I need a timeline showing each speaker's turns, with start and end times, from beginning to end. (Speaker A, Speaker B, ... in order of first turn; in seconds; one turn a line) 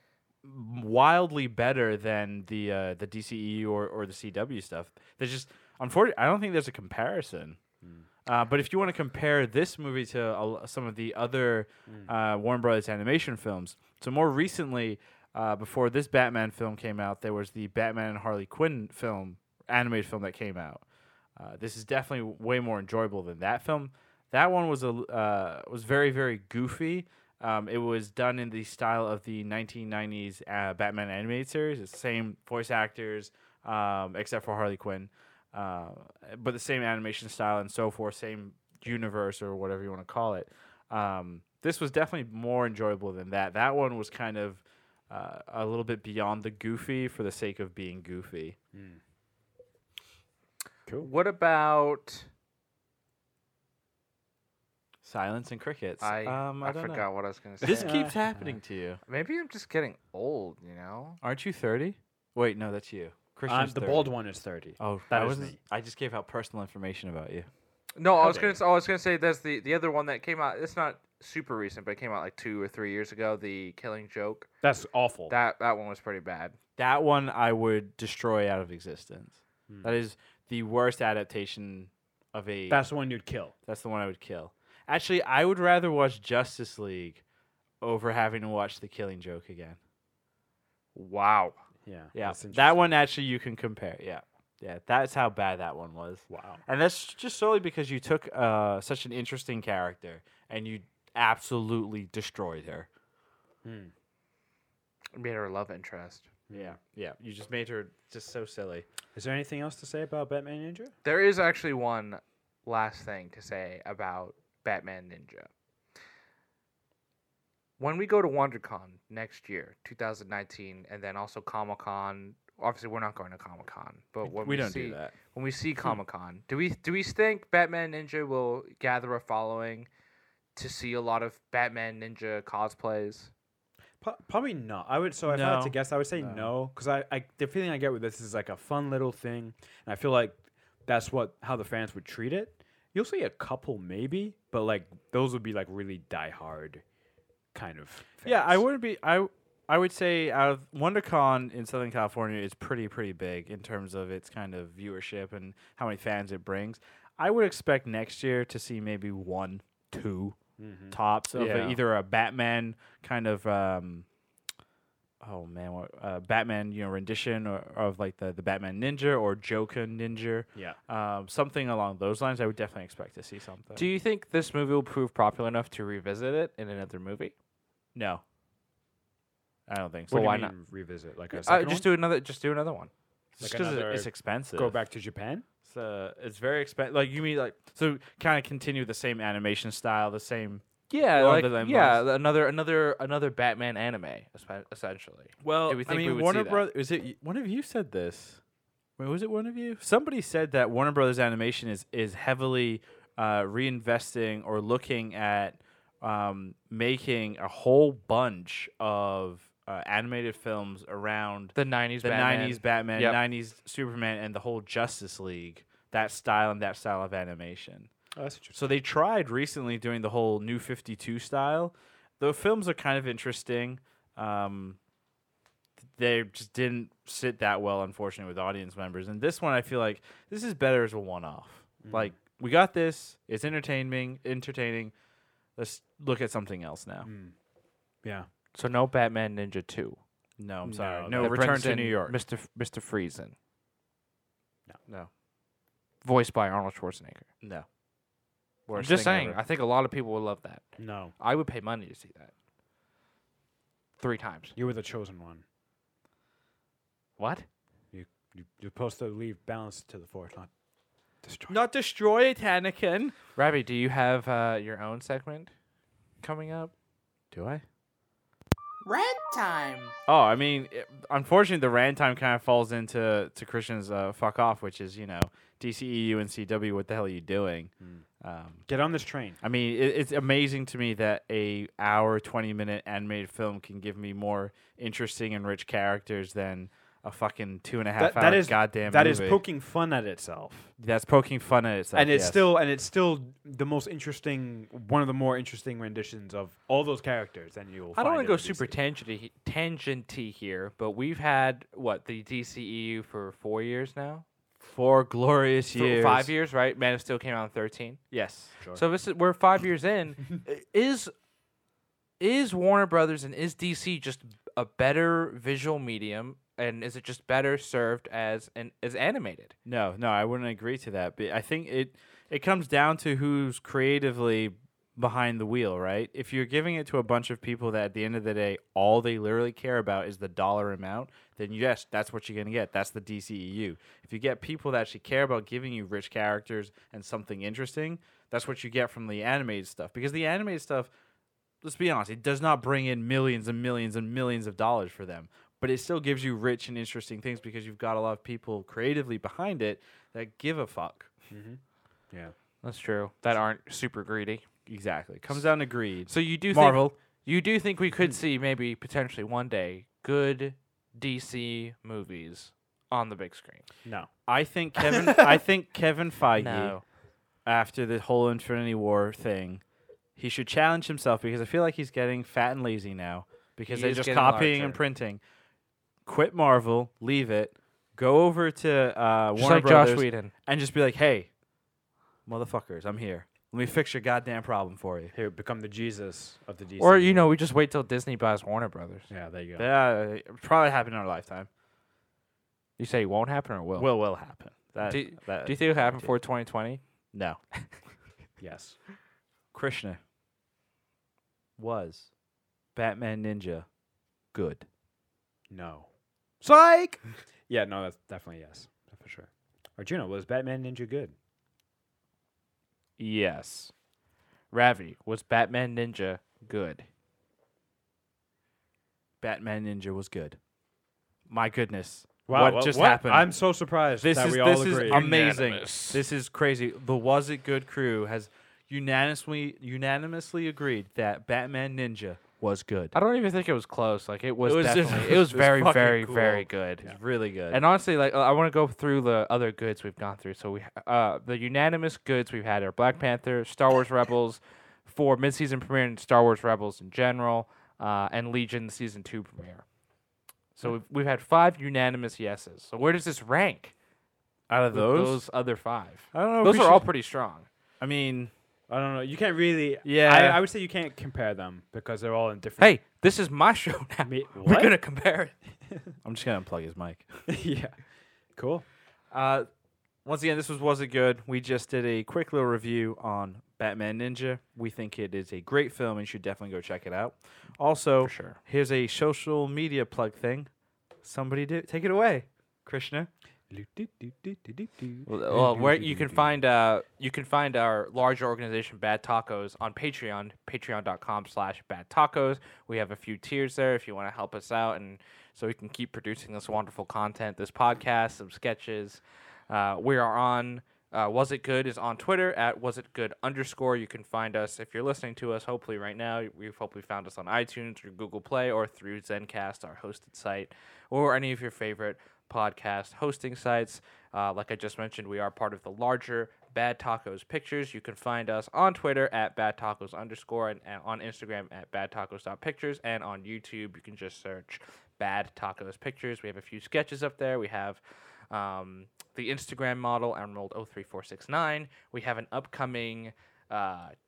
Speaker A: 0.4-7.6
Speaker A: 8.2-20.8
Speaker A: 21.4-48.5
Speaker B: 48.7-49.0
Speaker C: 51.0-52.3
Speaker A: 55.0-57.0
Speaker C: 56.0-58.0
Speaker B: 57.6-58.5
Speaker A: 57.6-59.0
Speaker C: 59.1-61.2
Speaker A: 61.2-64.1
Speaker B: 63.5-65.6
Speaker A: 64.8-67.5
Speaker C: 68.0-74.5
Speaker B: 68.2-68.5
Speaker B: 74.6-75.3
Speaker C: 75.3-76.5
Speaker A: 76.8-82.8
Speaker B: 79.7-80.0
Speaker B: 82.7-83.5
Speaker A: 83.7-87.2
Speaker A: 87.8-89.8
Speaker C: 90.9-91.6
Speaker B: 91.8-92.9
Speaker A: 92.1-102.9
Speaker B: 96.3-96.6
Speaker B: 103.6-103.9
Speaker C: 105.1-106.3
Speaker B: 106.5-106.8
Speaker A: 106.5-108.8
Speaker B: 109.1-110.9
Speaker C: 111.0-115.5
Speaker C: 117.8-129.9
Speaker A: 124.2-125.1
Speaker C: 130.6-133.3
Speaker B: 134.0-146.8
Speaker A: 135.2-136.5
Speaker B: 147.5-148.6
Speaker A: 148.2-160.4
Speaker B: 160.6-161.0
Speaker A: 160.9-164.1
Speaker C: 161.3-161.7
Speaker A: 165.2-173.9
Speaker C: 173.8-177.3
Speaker A: 177.9-178.2
Speaker A: 179.7-180.5
Speaker B: 180.1-181.9
Speaker C: 180.1-180.5
Speaker C: 181.3-182.9
Speaker A: 183.3-184.8
Speaker B: 183.4-185.4
Speaker A: 185.7-192.0
Speaker C: 190.9-196.6
Speaker A: 195.4-198.4
Speaker A: 199.0-217.9
Speaker C: 211.5-213.2
Speaker B: 218.1-218.6
Speaker A: 218.5-224.8
Speaker A: 225.9-234.9
Speaker B: 231.8-232.1
Speaker A: 235.6-237.1
Speaker B: 237.0-237.3
Speaker C: 238.5-240.0
Speaker A: 240.4-242.1
Speaker B: 240.7-241.4
Speaker C: 241.1-243.3
Speaker C: 246.0-247.3
Speaker A: 248.7-249.4
Speaker C: 248.8-250.6
Speaker B: 250.8-251.1
Speaker C: 251.2-252.3
Speaker C: 254.0-254.5
Speaker B: 254.6-255.4
Speaker C: 257.2-257.4
Speaker B: 257.9-260.5
Speaker B: 261.2-261.5
Speaker A: 261.5-263.1
Speaker C: 263.4-265.5
Speaker C: 266.2-266.7
Speaker A: 267.3-267.6
Speaker C: 268.8-269.9
Speaker A: 270.1-278.6
Speaker B: 278.7-279.4
Speaker A: 279.4-289.4
Speaker B: 288.0-290.7
Speaker A: 290.8-292.4
Speaker B: 291.9-298.8
Speaker C: 297.9-304.2
Speaker A: 304.6-306.3
Speaker C: 305.7-308.0
Speaker A: 308.1-308.6
Speaker C: 308.7-311.1
Speaker C: 312.2-319.6
Speaker A: 319.6-340.9
Speaker A: 341.6-351.1
Speaker B: 351.3-351.6
Speaker C: 352.6-354.4
Speaker A: 354.6-356.9
Speaker C: 356.1-363.6
Speaker A: 364.3-366.8
Speaker C: 366.4-366.8
Speaker A: 367.4-369.6
Speaker A: 370.1-375.2
Speaker C: 373.7-374.8
Speaker A: 376.0-381.3
Speaker C: 379.3-380.3
Speaker A: 382.2-385.1
Speaker B: 385.1-387.3
Speaker C: 386.8-389.1
Speaker B: 389.1-389.7
Speaker A: 389.6-391.5
Speaker C: 392.8-393.9
Speaker A: 393.8-396.1
Speaker C: 394.8-396.8
Speaker A: 397.1-397.4
Speaker B: 398.4-398.8
Speaker A: 399.5-400.0
Speaker A: 401.6-402.1
Speaker A: 402.7-403.7
Speaker A: 404.3-404.6
Speaker B: 405.5-405.9
Speaker B: 406.4-411.1
Speaker C: 413.0-413.7
Speaker C: 414.5-416.8
Speaker A: 419.2-420.4
Speaker A: 421.3-423.3
Speaker B: 422.2-425.1
Speaker A: 424.0-432.9
Speaker C: 424.8-426.0
Speaker C: 432.9-436.9
Speaker A: 434.4-437.6
Speaker C: 437.5-449.6
Speaker C: 450.6-453.7
Speaker A: 454.5-455.2
Speaker C: 454.7-457.5
Speaker A: 456.1-456.8
Speaker A: 457.8-458.3
Speaker B: 458.7-462.8
Speaker A: 459.8-460.4
Speaker C: 462.6-465.3
Speaker B: 464.0-464.8
Speaker A: 466.0-467.1
Speaker B: 467.3-467.8
Speaker B: 468.4-468.6
Speaker A: 469.1-469.5
Speaker A: 470.0-480.5
Speaker C: 478.0-478.4
Speaker A: 481.0-483.1
Speaker B: 483.5-486.3
Speaker C: 485.1-527.8
Speaker C: 528.3-533.9